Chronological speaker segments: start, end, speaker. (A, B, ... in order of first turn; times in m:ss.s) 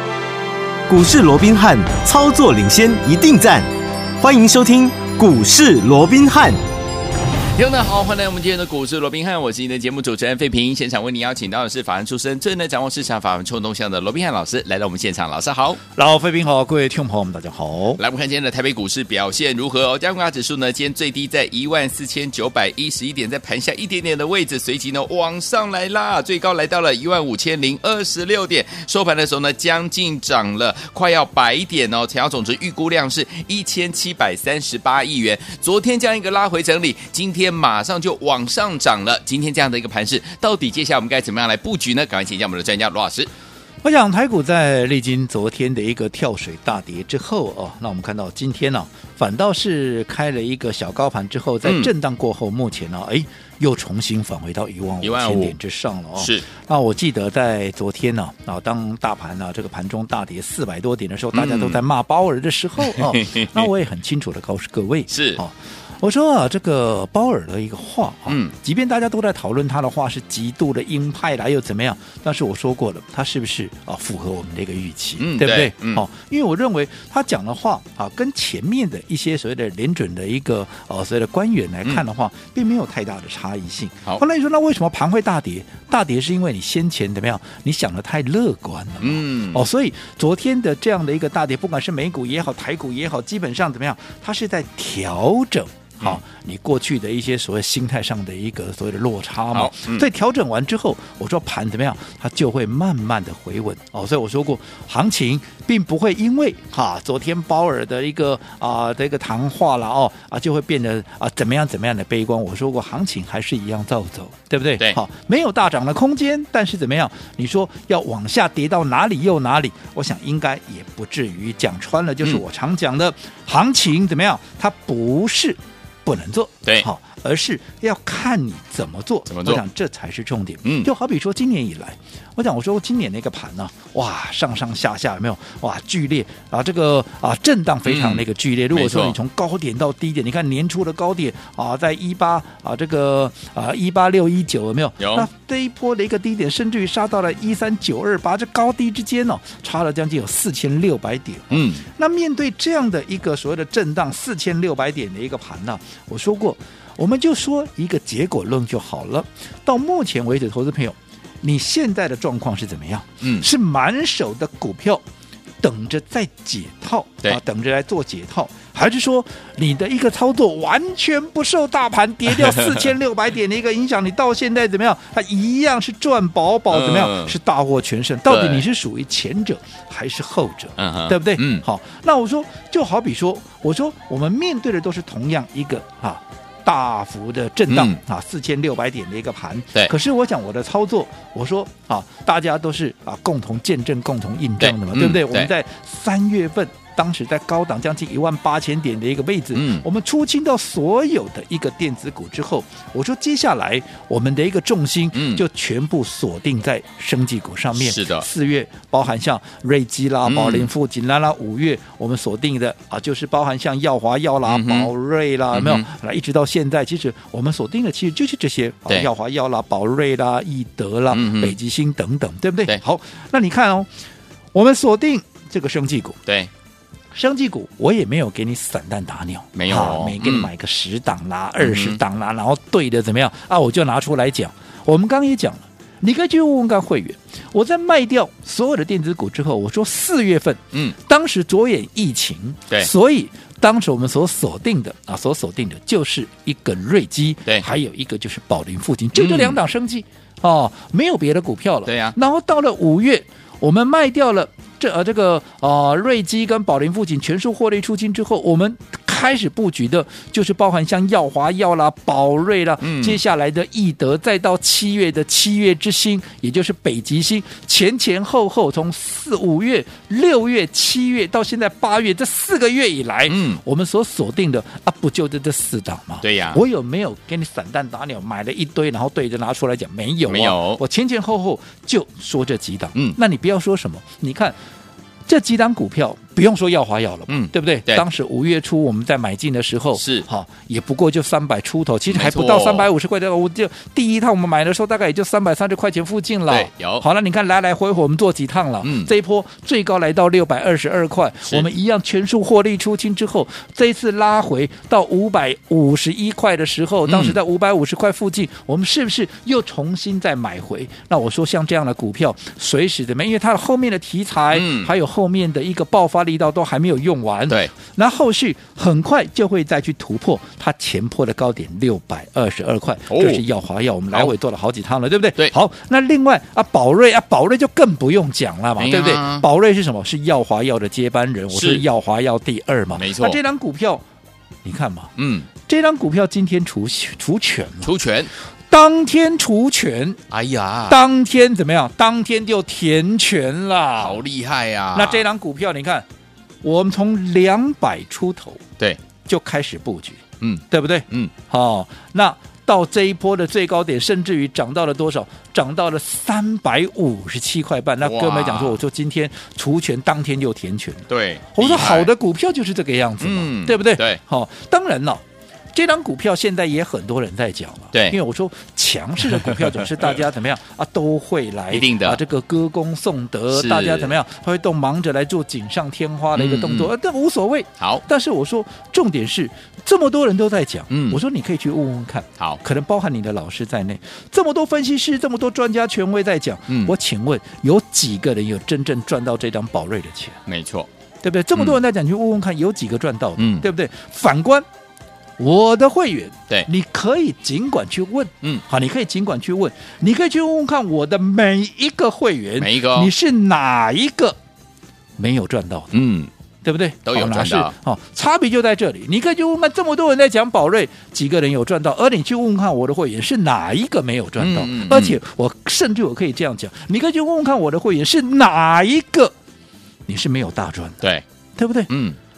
0:00.9-0:03.7 A
0:04.2-0:06.6 A
0:07.6-0:15.8 B
0:16.0-0:18.0 C
0:18.0-0:43.3 B
0:43.8-2:45.0 C
0:51.6-0:51.9 B
0:55.0-0:55.6 B
0:56.2-0:56.4 B
1:01.3-1:01.8 B
1:02.9-1:03.7 B
1:05.1-1:05.4 B
1:08.3-1:08.5 B
1:15.2-1:16.0 B
1:29.0-1:29.6 B
1:39.5-1:40.1 B
2:09.3-2:09.6 B
2:10.6-2:10.9 B
2:17.8-2:19.2 B
2:25.0-2:25.3 B
2:31.5-2:31.8 B
2:43.2-2:43.5 B
2:45.6-3:43.9 C
2:52.3-2:52.9 B
2:56.7-2:57.4 B
2:58.3-2:58.6 B
3:00.8-3:01.6 B
3:07.7-3:08.0 B
3:14.6-3:15.5 B
3:19.5-3:19.8 B
3:25.1-3:25.4 B
3:27.8-3:28.3 B
3:30.2-3:30.7 B
3:34.5-3:34.9 B
3:35.5-3:35.8 B
3:41.1-3:41.6 B
3:44.5-3:46.2 C
3:47.1-4:44.6 C
3:49.6-3:50.5 B
3:51.6-3:52.0 B
4:09.2-4:09.6 B
4:11.8-4:12.2 B
4:22.8-4:23.2 B
4:33.3-4:33.6 B
4:36.2-4:36.6 B
4:40.2-4:40.8 B
4:45.3-5:34.0 C
4:47.3-4:48.0 B
4:50.0-4:50.2 B
4:52.1-4:52.9 B
4:56.5-4:57.0 B
4:58.8-4:59.1 B
5:07.1-5:07.4 B
5:14.5-5:14.9 B
5:23.1-5:23.4 B
5:28.8-5:29.5 B
5:31.5-5:31.8 B
5:33.0-5:33.4 B
5:34.6-5:35.1 C
5:35.2-5:35.5 B
5:35.6-5:37.9 C
5:37.8-5:38.3 B
5:38.7-5:40.2 C
5:40.3-5:41.0 B
5:40.9-5:44.2 C
5:44.0-5:45.2 B
5:44.9-5:46.0 C
5:46.6-5:48.6 C
5:49.2-6:05.2 C
5:50.4-5:51.3 B
5:58.0-5:58.8 B
6:01.1-6:02.1 B
6:03.2-6:04.2 B
6:05.7-6:30.4 C
6:07.9-6:08.2 B
6:09.4-6:10.2 B
6:11.7-6:12.2 B
6:13.5-6:14.1 B
6:16.3-6:16.9 B
6:17.8-6:18.0 B
6:20.9-6:21.2 B
6:26.7-6:27.0 B
6:30.5-6:30.9 B
6:31.2-6:34.6 C
6:33.4-6:33.7 B
6:35.4-6:44.4 C
6:42.6-6:43.1 B
6:45.2-6:46.0 C
6:45.9-6:46.3 B
6:46.6-6:59.3 C
6:47.0-6:47.7 B
6:54.4-6:55.2 B
7:00.1-7:01.0 C
7:01.6-7:01.9 C
7:01.9-7:02.2 B